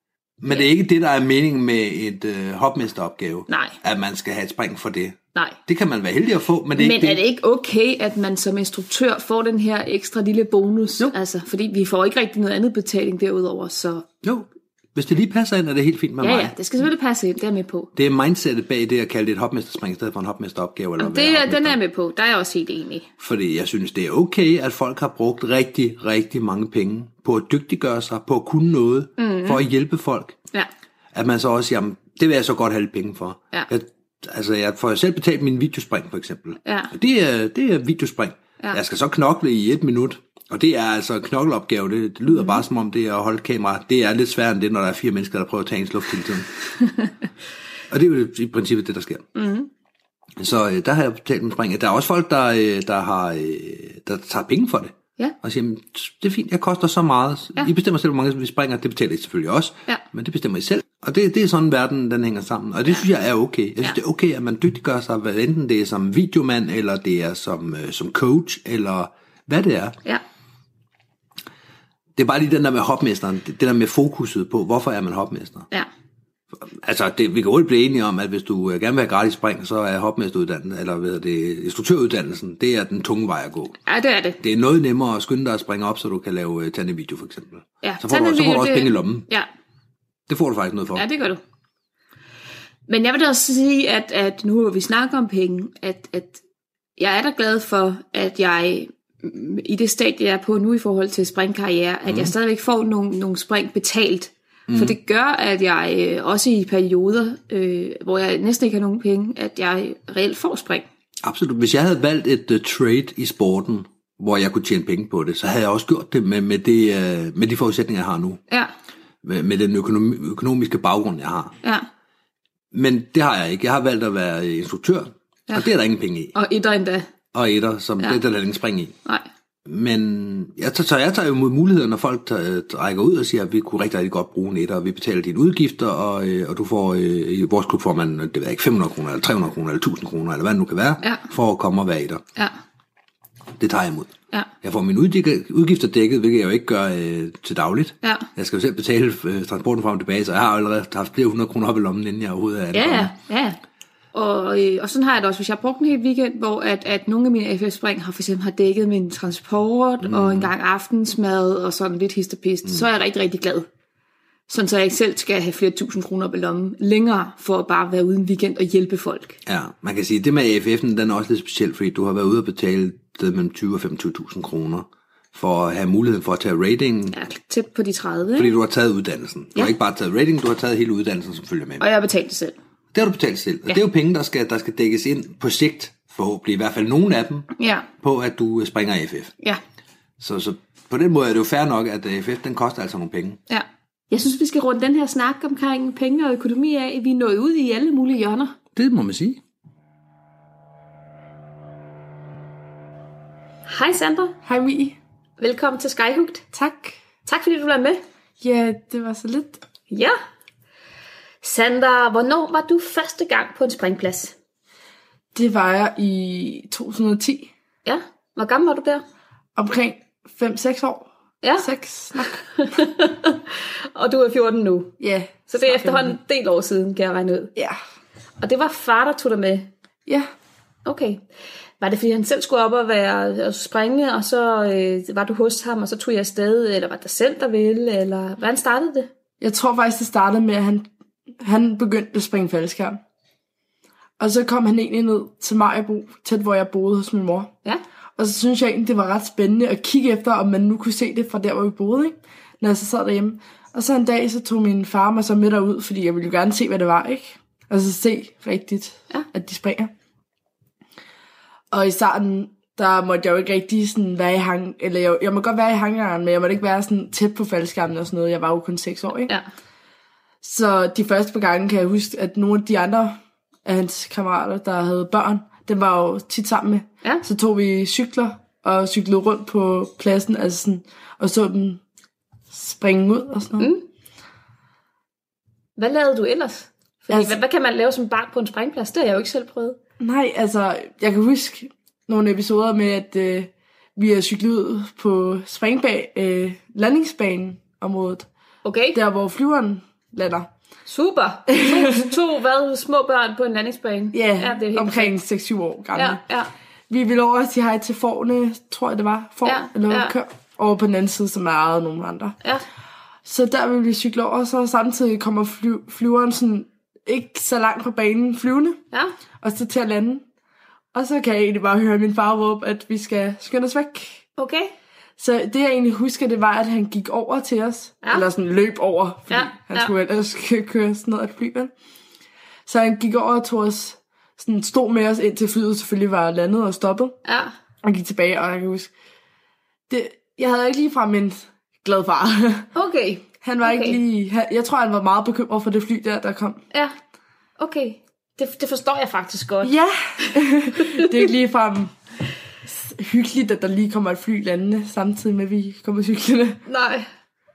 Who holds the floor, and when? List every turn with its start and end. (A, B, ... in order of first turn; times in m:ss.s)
0:00.4-0:07.2 A
0:03.5-0:03.8 B
0:06.8-0:14.0 B
0:14.2-0:16.9 A
0:16.2-0:17.9 B
0:18.0-0:21.8 A
0:21.0-0:23.1 B
0:23.2-0:30.4 A
0:29.2-0:29.6 B
0:31.1-0:46.5 A
0:36.6-0:36.9 B
0:47.9-0:49.2 A
0:49.3-0:49.7 B
0:50.4-1:10.0 A
1:12.2-1:15.7 A
1:16.6-1:23.8 A
1:23.9-1:24.4 B
1:24.4-1:29.3 A
1:27.8-1:29.5 B
1:30.3-1:31.0 A
1:30.9-1:31.4 B
1:32.9-1:36.4 B
1:37.0-1:50.8 B
1:42.0-1:42.3 A
1:44.7-1:45.0 A
1:51.2-1:58.4 A
1:59.2-2:01.6 A
2:02.7-2:06.3 A
2:06.3-2:07.1 B
2:07.3-2:08.9 A
2:09.6-2:22.2 A
2:21.0-2:21.3 B
2:23.6-2:33.1 A
2:32.7-2:33.6 B
2:34.1-2:43.6 B
2:40.0-2:40.5 A
2:44.5-2:49.4 B
2:49.4-2:57.2 A
2:57.1-2:58.5 B
2:58.4-3:01.9 A
3:01.8-3:02.6 B
3:02.9-3:07.5 A
3:07.6-3:07.9 B
3:08.0-3:09.3 A
3:10.2-3:13.4 A
3:13.5-3:18.6 B
3:18.8-3:19.4 A
3:23.7-3:24.4 B
3:24.4-3:25.0 C
3:25.4-3:26.4 B
3:26.5-3:27.0 C
3:27.3-3:28.0 B
3:28.4-3:29.6 C
3:29.9-3:30.1 B
3:31.4-3:34.3 B
3:35.3-3:37.5 C
3:37.8-3:39.0 B
3:39.6-3:41.1 C
3:41.4-3:44.9 B
3:41.6-3:42.4 C
3:45.0-3:46.2 C
3:45.5-3:47.5 B
3:48.4-3:49.7 B
3:50.8-3:51.2 B
3:51.8-3:59.1 B
3:59.4-4:00.9 C
4:01.4-4:03.0 C
4:04.2-4:07.5 C
4:08.2-4:19.9 C
4:21.7-4:29.3 C
4:30.4-4:41.8 C
4:42.5-4:43.7 C
4:43.6-4:43.8 B
4:45.8-4:49.8 B
4:47.1-4:47.4 C
4:50.0-4:58.3 C
4:58.6-4:59.0 B
4:58.9-5:00.5 C
5:00.9-5:05.1 B
5:01.5-5:02.1 C
5:04.1-5:06.2 C
5:05.9-5:06.5 B
5:06.9-5:12.4 C
5:09.4-5:10.1 B
5:13.2-5:18.8 C
5:19.4-5:20.2 C
5:20.9-5:24.2 C
5:24.4-5:24.7 B
5:25.2-5:31.7 C
5:29.3-5:29.9 B
5:32.7-5:37.1 C
5:37.3-5:37.5 B
5:37.8-5:38.9 C
5:39.9-5:42.7 C
5:42.7-5:44.0 B
5:43.4-5:46.6 C
5:47.6-5:49.7 B
5:49.6-5:51.9 C
5:50.2-5:51.0 B
5:52.6-5:56.6 C
5:56.7-5:57.0 B